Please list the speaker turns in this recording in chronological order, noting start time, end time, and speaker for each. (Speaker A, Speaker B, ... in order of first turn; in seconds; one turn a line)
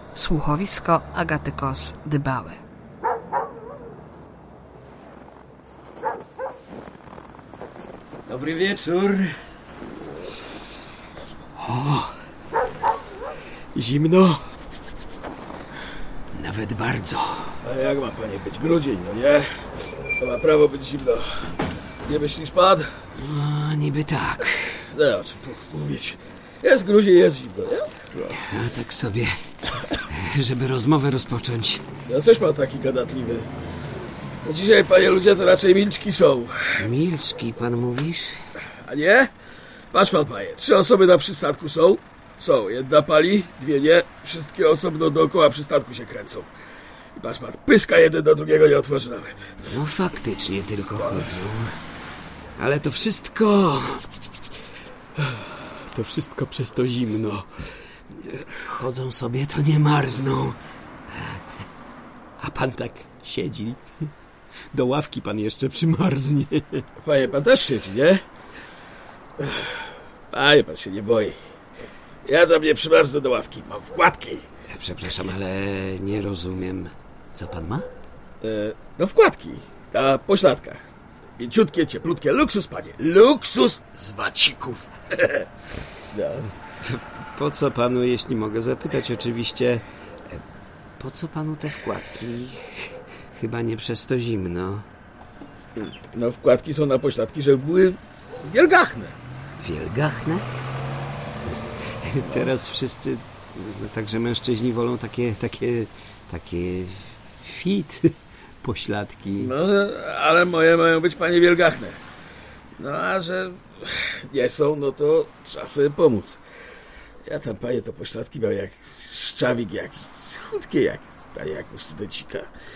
Speaker A: 0.1-2.6
Speaker B: 8.2-9.4
Speaker B: 11.6-12.1
Speaker B: 13.7-14.4
Speaker B: 16.3-17.6
Speaker C: 17.6-19.6
Speaker C: 20.2-23.0
Speaker B: 23.2-24.8
Speaker C: 24.8-28.4
Speaker B: 28.3-29.4
Speaker B: 30.1-31.8
Speaker C: 32.1-33.5
Speaker C: 34.4-36.9
Speaker B: 36.8-38.5
Speaker C: 38.6-39.3
Speaker C: 39.9-46.5
Speaker C: 47.1-49.6
Speaker B: 49.6-51.8
Speaker C: 51.0-51.3
Speaker B: 52.5-54.1
Speaker B: 55.9-57.6
Speaker B: 58.1-60.6
Speaker B: 61.1-61.5
Speaker B: 62.4-63.8
Speaker B: 64.7-66.8
Speaker C: 67.0-68.2
Speaker C: 69.4-71.3
Speaker C: 72.2-74.5
Speaker B: 74.7-77.9
Speaker C: 78.4-85.5
Speaker C: 86.1-86.5
Speaker B: 86.4-90.4
Speaker B: 91.0-94.8
Speaker C: 95.8-99.2
Speaker B: 99.6-100.5
Speaker B: 101.9-109.5
Speaker C: 102.2-102.5
Speaker C: 109.4-112.0
Speaker C: 112.8-116.4
Speaker C: 117.2-122.5